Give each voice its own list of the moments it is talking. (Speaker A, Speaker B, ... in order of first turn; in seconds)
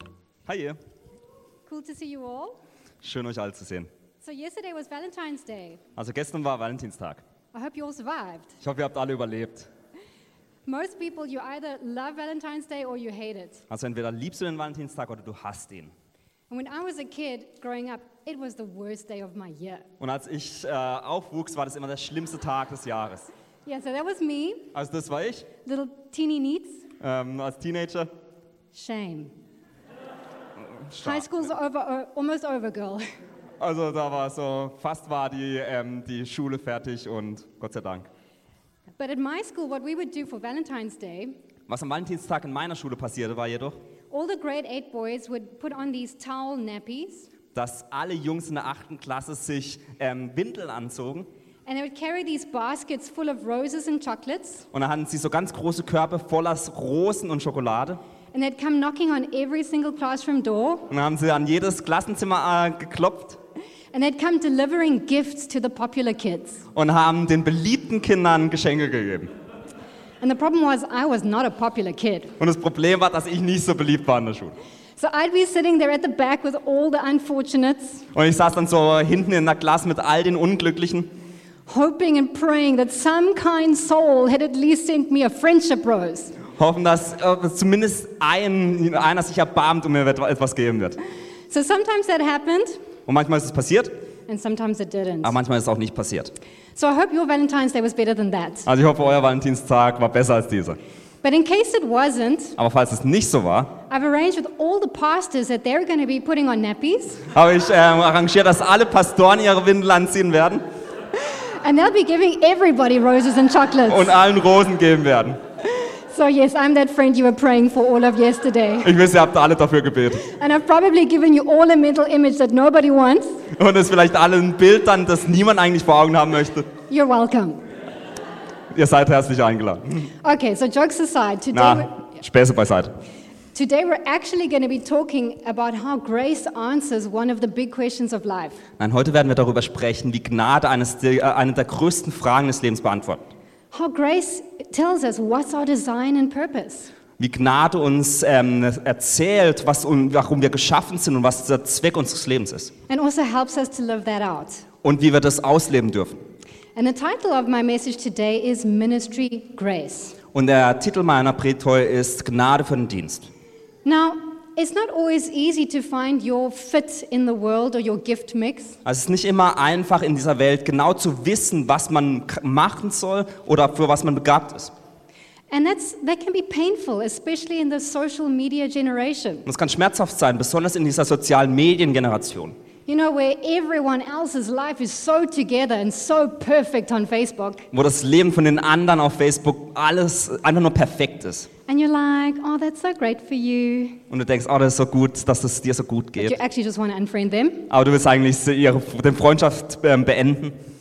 Speaker A: 0.5-0.8, 3.0-3.9, 6.0-7.2, 8.6-9.7, 13.7-15.9, 20.0-23.3, 24.7-25.5, 27.0-28.1, 30.8-31.5, 33.6-38.1, 41.7-43.8, 47.5-51.3, 54.7-58.0, 60.9-63.4, 66.7-69.3, 72.4-74.5, 78.1-81.1, 86.6-91.0, 93.1-94.0, 95.2-96.3, 98.7-100.8, 102.6-103.7, 107.3-110.6, 113.9-115.4, 118.8-120.2, 123.5-126.7, 128.7-130.1, 131.5-132.9, 138.8-143.2, 147.2-152.7, 154.8-156.2, 160.3-163.3, 168.8-174.7, 179.5-182.6, 187.7-191.5, 194.1-196.4, 197.7-200.6
Speaker B: 1.7-2.6, 4.2-5.8, 7.5-8.6, 10.7-13.6, 16.5-19.9, 23.6-24.7, 25.6-26.8, 28.7-29.3, 31.0-33.0, 39.0-41.4, 44.1-47.3, 51.7-54.7, 58.3-60.9, 63.9-66.6, 70.2-72.3, 75.0-78.1, 81.7-86.4, 91.5-92.8, 94.3-95.4, 96.8-98.7, 101.2-102.6, 103.9-107.2, 111.3-114.1, 115.6-119.0, 120.2-123.4, 126.9-127.6, 130.2-131.9, 133.5-138.6, 143.7-146.9, 152.9-154.7, 156.8-160.2, 163.8-168.8, 175.5-179.5, 182.9-187.7, 191.7-194.0, 196.2-197.7